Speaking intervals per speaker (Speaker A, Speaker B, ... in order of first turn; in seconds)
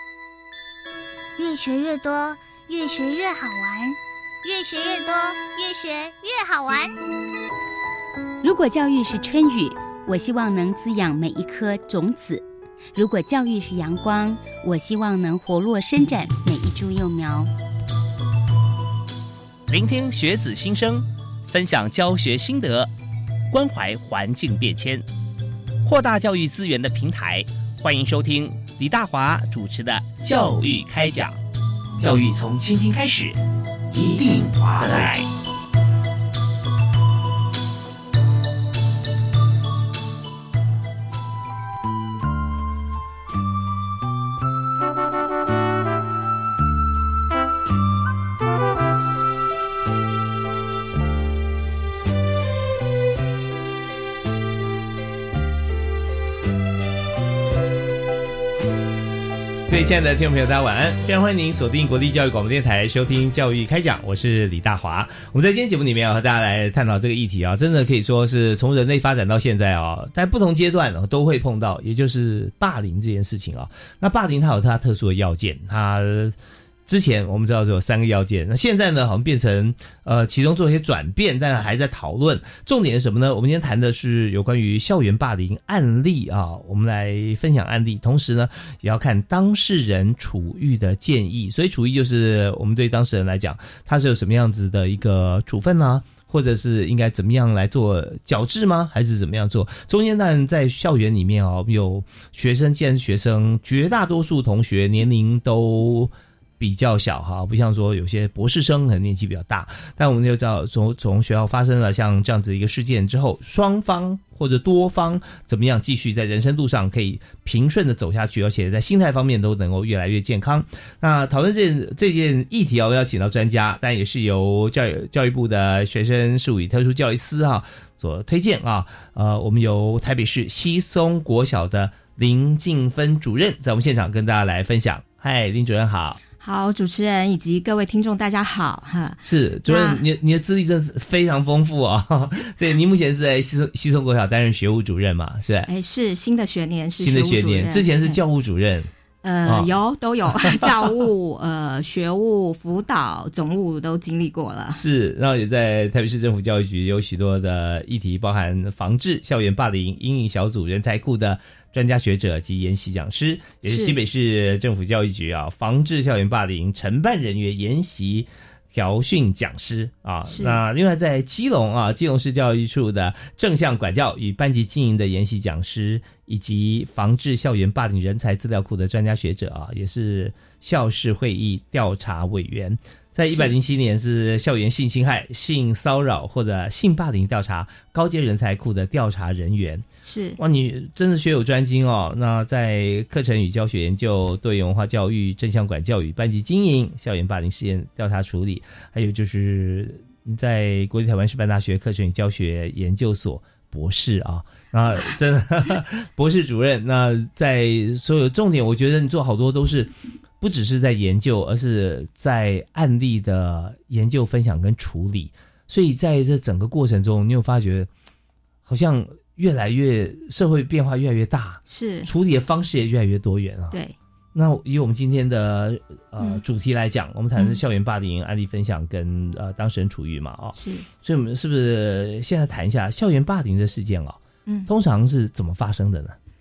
Speaker A: 1.4-6.9
Speaker B: 8.4-17.5
Speaker C: 19.7-22.9, 23.5-25.0, 25.8-31.4, 32.0-33.4, 33.9-35.3, 59.7-136.2, 139.2-145.7, 147.0-148.9, 154.7-189.8, 190.4-217.9, 218.6-223.7, 224.3-236.2
Speaker D: 136.4-140.0, 145.7-148.2, 149.2-154.8, 163.6-164.0, 170.3-170.6, 183.3-183.5, 190.0-190.4, 221.7-222.1, 223.7-223.9, 230.5-230.9